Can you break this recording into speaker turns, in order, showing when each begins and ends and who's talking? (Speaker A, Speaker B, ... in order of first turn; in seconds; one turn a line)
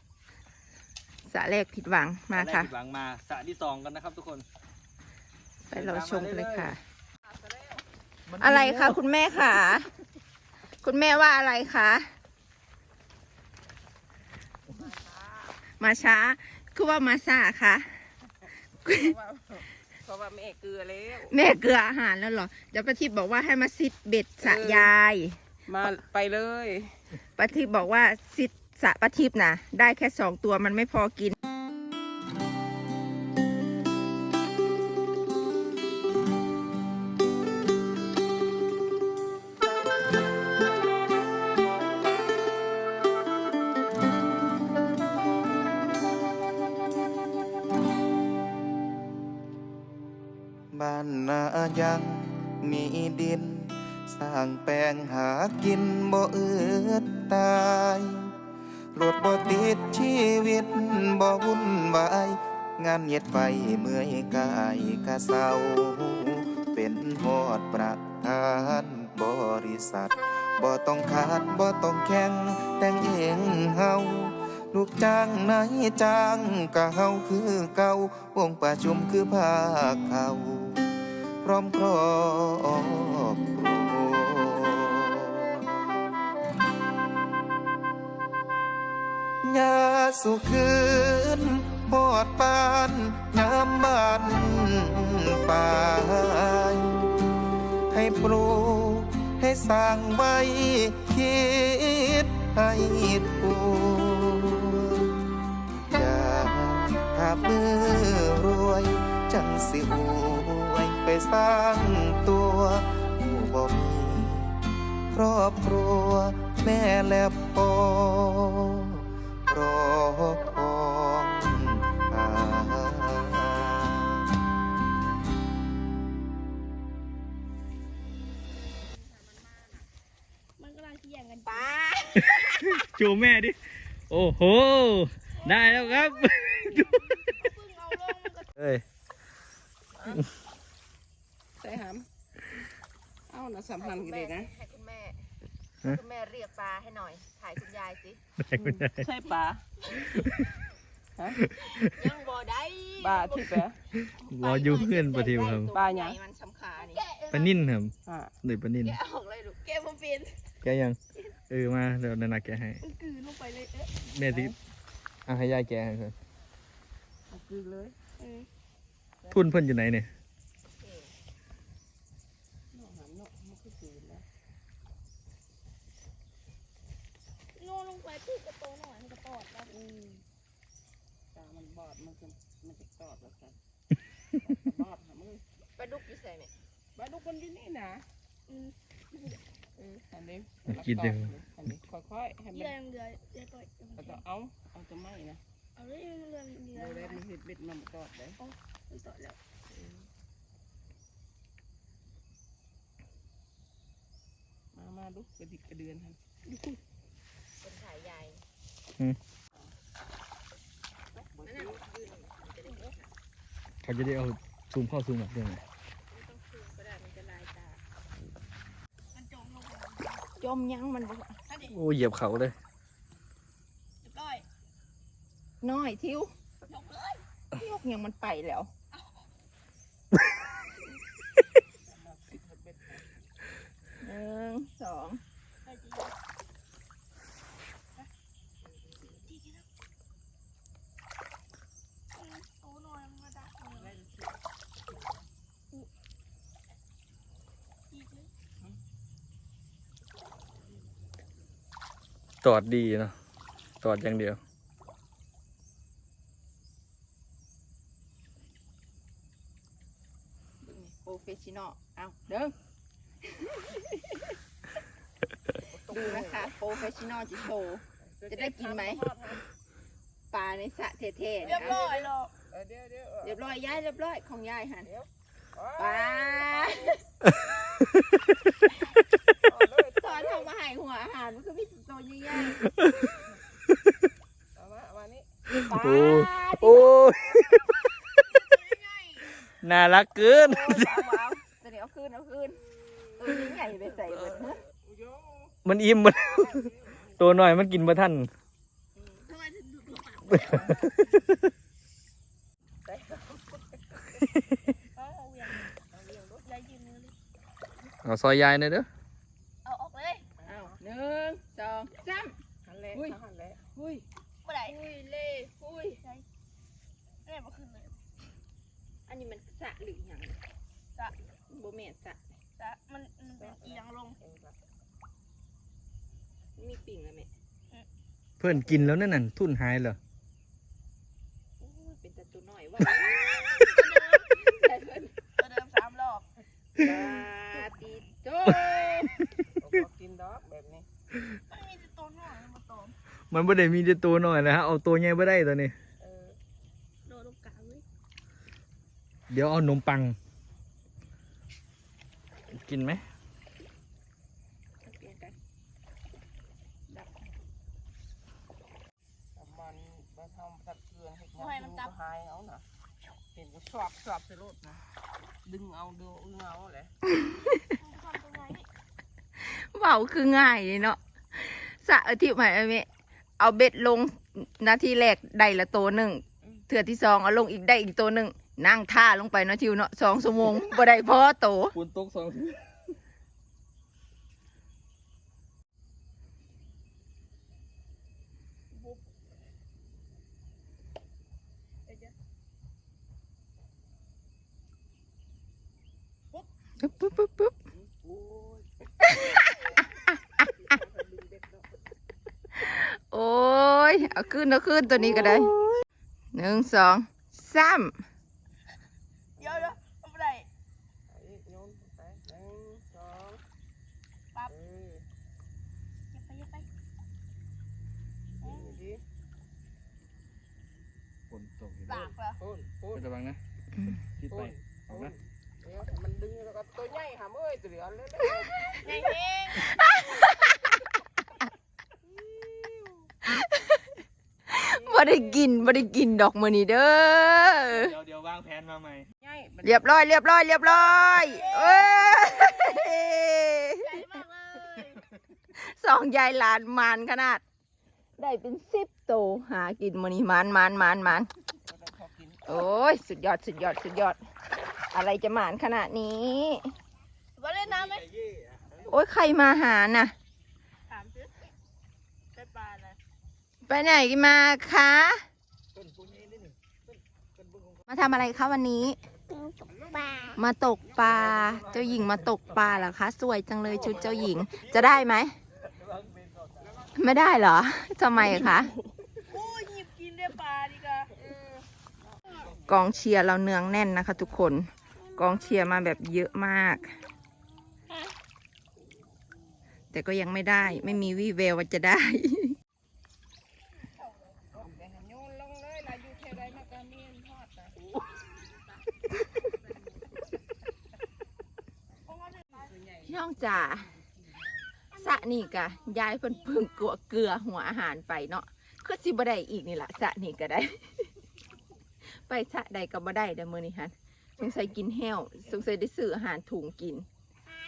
Speaker A: 1.3-2.7
Speaker B: 2.3-4.4
Speaker A: 5.7-6.8
Speaker B: 5.7-6.7
Speaker C: 7.2-7.8
Speaker B: 8.3-9.0
Speaker A: 8.4-9.9
Speaker A: 10.8-12.1
Speaker C: 14.7-15.6
Speaker A: 15.8-17.9
Speaker A: 18.8-19.1
Speaker C: 18.9-21.3
Speaker A: 21.3-25.4
Speaker C: 24.4-24.9
Speaker C: 25.6-26.9
Speaker A: 27.4-31.4
Speaker D: 50.7-58.3
Speaker D: 59.0-80.8
Speaker D: 81.4-85.8
Speaker D: 89.4-97.1
Speaker D: 97.9-105.2
Speaker D: 105.9-114.5
Speaker D: 115.1-124.3
Speaker C: 128.8-129.9
Speaker E: 130.6-131.7
Speaker A: 131.4-132.8
Speaker B: 132.8-133.6
Speaker B: 134.1-137.0
Speaker E: 135.5-136.0
Speaker E: 137.3-138.5
Speaker B: 138.6-138.8
Speaker C: 141.6-142.1
Speaker C: 143.3-144.5
Speaker A: 143.8-145.2
Speaker A: 145.8-148.2
Speaker B: 148.4-149.0
Speaker C: 148.5-149.6
Speaker E: 150.0-150.2
Speaker B: 151.5-151.9
Speaker A: 151.8-153.5
Speaker C: 153.0-153.8
Speaker B: 154.1-155.7
Speaker A: 154.2-157.0
Speaker C: 155.7-156.2
Speaker E: 156.8-157.6
Speaker B: 157.3-157.9
Speaker C: 158.0-158.3
Speaker B: 158.4-158.9
Speaker A: 158.8-159.6
Speaker E: 159.6-160.4
Speaker B: 160.6-161.0
Speaker B: 161.5-162.8
Speaker E: 162.8-163.9
Speaker B: 164.0-164.5
Speaker C: 164.3-164.5
Speaker B: 165.3-166.1
Speaker C: 167.3-167.9
Speaker E: 168.2-168.5
Speaker C: 169.2-169.5
Speaker B: 169.3-170.1
Speaker A: 170.8-171.1
Speaker C: 172.7-174.2
Speaker E: 177.6-179.8
Speaker C: 179.8-180.2
Speaker C: 181.3-183.6
Speaker C: 184.4-185.4
Speaker A: 185.8-186.5
Speaker C: 186.9-188.1
Speaker E: 188.5-189.4
Speaker C: 189.8-192.8
Speaker B: 190.7-191.3
Speaker E: 192.5-194.2
Speaker C: 194.0-195.4
Speaker E: 195.8-197.2
Speaker C: 196.7-198.4
Speaker E: 198.4-199.4
Speaker C: 199.7-200.0
Speaker C: 204.7-206.2
Speaker A: 207.6-208.4
Speaker C: 211.1-211.8
Speaker A: 211.4-213.1
Speaker B: 213.8-215.6
Speaker A: 216.2-216.8
Speaker E: 216.3-216.9
Speaker E: 219.1-220.2
Speaker A: 220.4-221.3
Speaker E: 221.5-221.8
Speaker B: 221.7-222.5
Speaker E: 224.0-224.4
Speaker A: 225.6-226.3
Speaker E: 226.7-227.2
Speaker A: 227.5-228.7
Speaker C: 231.8-233.1
Speaker A: 234.0-235.2
Speaker E: 235.6-236.1
Speaker E: 239.2-239.6
Speaker E: 242.2-243.9
Speaker C: 243.8-244.4
Speaker E: 247.9-248.3
Speaker B: 252.4-253.1
Speaker B: 253.8-254.4
Speaker A: 260.6-262.5
Speaker A: 263.4-264.3
Speaker C: 265.7-266.5
Speaker A: 265.9-269.0
Speaker C: 268.0-269.4
Speaker A: 270.3-271.9
Speaker C: 271.4-273.4
Speaker E: 271.4-272.3
Speaker A: 273.2-274.9
Speaker C: 274.9-277.0
Speaker A: 275.8-276.9
Speaker A: 278.6-278.9
Speaker C: 279.4-280.5
Speaker A: 280.0-282.7
Speaker B: 282.6-283.1
Speaker C: 284.5-285.3
Speaker B: 285.5-287.6
Speaker A: 285.6-287.0
Speaker E: 288.2-289.3
Speaker B: 289.6-290.9
Speaker A: 290.3-292.6
Speaker A: 293.2-294.6
Speaker C: 294.7-295.5
Speaker B: 295.6-298.3
Speaker C: 296.4-297.0
Speaker E: 299.2-300.7
Speaker C: 300.5-300.9
Speaker B: 301.1-301.4
Speaker C: 302.9-304.2
Speaker E: 304.9-305.7
Speaker C: 305.9-306.4
Speaker E: 306.4-307.1
Speaker B: 308.0-308.9
Speaker E: 309.6-310.3
Speaker C: 310.4-310.8
Speaker A: 310.4-312.4
Speaker C: 312.6-313.7
Speaker A: 313.7-314.0
Speaker E: 314.4-314.8
Speaker A: 314.6-316.0
Speaker E: 316.0-316.2
Speaker E: 317.2-317.9
Speaker A: 319.1-320.4
Speaker A: 321.5-322.2
Speaker E: 322.6-324.2
Speaker C: 323.4-324.6
Speaker A: 326.6-327.3
Speaker B: 328.4-330.0
Speaker A: 331.6-335.1
Speaker E: 333.1-334.3
Speaker E: 335.4-336.3
Speaker A: 336.8-339.2
Speaker C: 339.6-340.9
Speaker E: 341.5-342.9
Speaker B: 343.3-345.7
Speaker C: 346.0-346.4
Speaker E: 347.1-347.8
Speaker B: 349.3-350.1
Speaker B: 352.5-353.0
Speaker C: 354.9-355.3
Speaker C: 359.3-362.6
Speaker E: 361.4-361.9
Speaker C: 363.3-364.8
Speaker C: 365.4-366.9
Speaker E: 367.2-368.6
Speaker A: 369.4-372.9
Speaker A: 373.4-381.8
Speaker B: 381.7-382.8
Speaker E: 388.7-389.0
Speaker E: 391.9-392.1
Speaker A: 396.8-397.5
Speaker C: 397.7-398.7
Speaker A: 399.0-400.5
Speaker C: 400.5-401.7
Speaker A: 402.6-405.5
Speaker A: 406.3-408.0
Speaker C: 409.4-409.8
Speaker E: 409.4-410.5
Speaker C: 411.1-413.4
Speaker C: 414.5-415.0
Speaker E: 416.1-416.7
Speaker C: 418.4-419.0
Speaker E: 418.4-418.8
Speaker B: 421.3-422.1
Speaker E: 421.9-422.4
Speaker C: 422.4-423.1
Speaker B: 422.9-423.4
Speaker B: 424.2-425.1
Speaker C: 424.3-428.8
Speaker A: 428.3-428.8
Speaker E: 428.8-429.7
Speaker A: 429.5-430.8
Speaker C: 432.0-433.1
Speaker A: 433.2-433.9
Speaker A: 434.5-437.9
Speaker C: 434.6-435.4
Speaker B: 437.7-439.1
Speaker C: 439.2-439.9
Speaker A: 439.6-444.0
Speaker E: 441.2-442.9
Speaker E: 443.8-445.1
Speaker A: 445.6-447.4
Speaker A: 448.2-451.3
Speaker C: 451.6-452.6
Speaker A: 452.4-454.2
Speaker A: 454.9-456.7
Speaker E: 457.4-458.1
Speaker C: 458.6-459.0
Speaker A: 458.9-460.1
Speaker E: 460.9-461.3
Speaker E: 462.3-463.0
Speaker A: 463.6-465.2
Speaker A: 467.9-469.0
Speaker E: 469.3-470.4
Speaker A: 470.4-475.3
Speaker A: 476.9-478.7
Speaker E: 479.3-481.1
Speaker C: 481.1-482.7
Speaker A: 482.6-486.9
Speaker A: 489.9-492.6
Speaker C: 494.5-497.8
Speaker E: 502.1-502.7
Speaker C: 502.6-503.1
Speaker A: 503.0-503.9
Speaker A: 504.9-511.1
Speaker E: 505.0-506.3
Speaker A: 512.0-517.0